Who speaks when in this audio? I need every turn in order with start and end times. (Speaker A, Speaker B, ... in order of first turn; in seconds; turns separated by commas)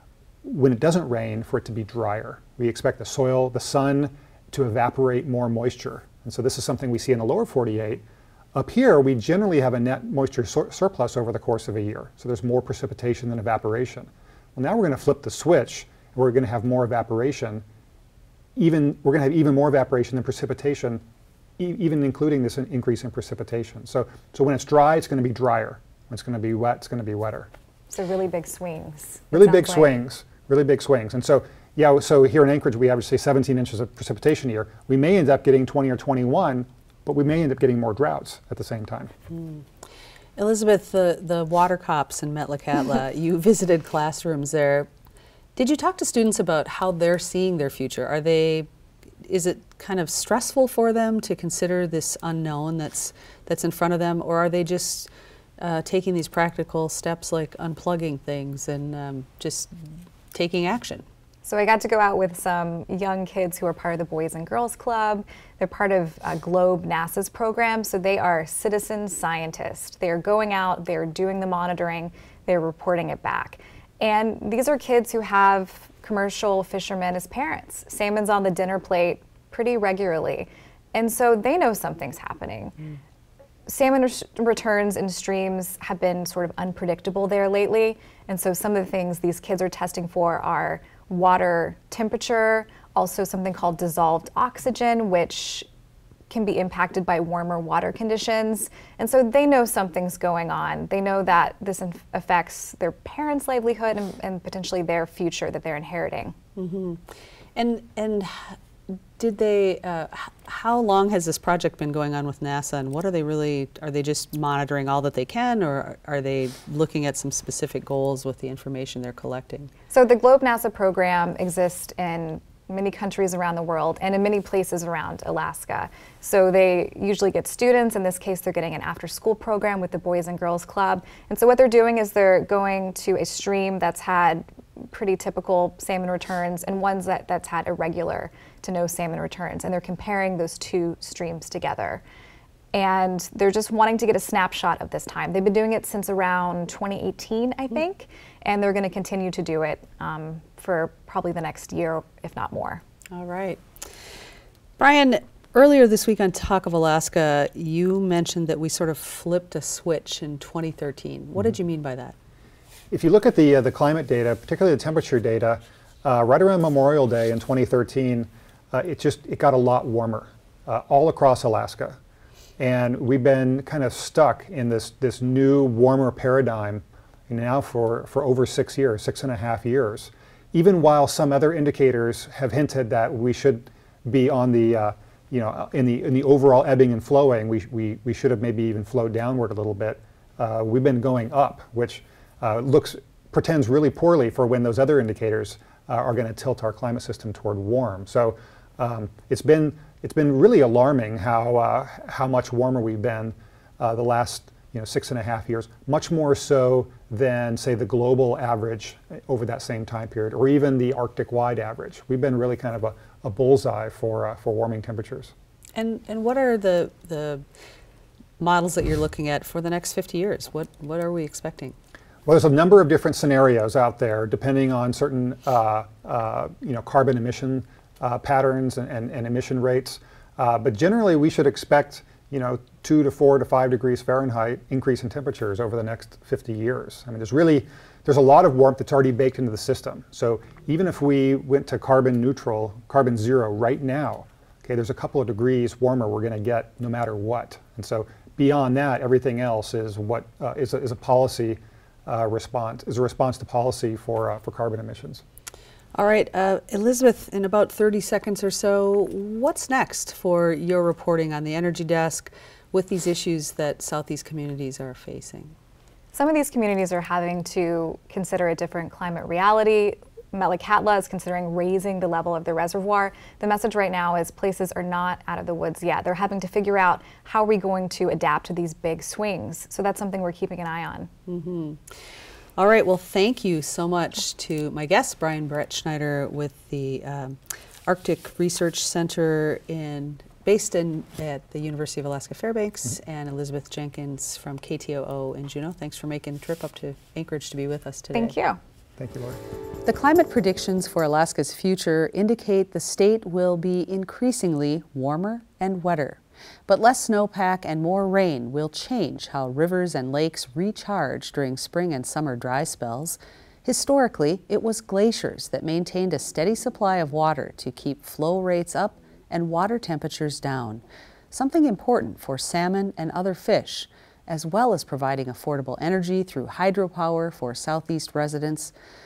Speaker A: 0.4-17.6, Speaker A: 18.6-21.0, Speaker A: 21.6-27.5, Speaker B: 27.9-29.9, Speaker A: 29.3-39.1, Speaker C: 39.3-39.6, Speaker C: 40.4-44.9, Speaker C: 45.5-48.7, Speaker C: 49.2-59.7, Speaker C: 60.3-61.0, Speaker B: 61.4-82.7, Speaker B: 83.7-95.7, Speaker B: 96.3-106.3, Speaker C: 106.5-119.7, Speaker B: 119.9-142.0, Speaker B: 142.7-152.8, Speaker C: 153.1-153.6, Speaker C: 154.8-162.1, Speaker A: 162.9-172.0, Speaker A: 172.6-215.3, Speaker C: 215.8-217.4, Speaker C: 218.4-221.7, Speaker A: 222.2-255.2, Speaker C: 255.9-265.5, Speaker B: 266.1-281.1, Speaker C: 281.3-282.0, Speaker C: 282.6-298.3, Speaker B: 298.1-298.6, Speaker A: 299.0-299.4, Speaker C: 299.8-328.7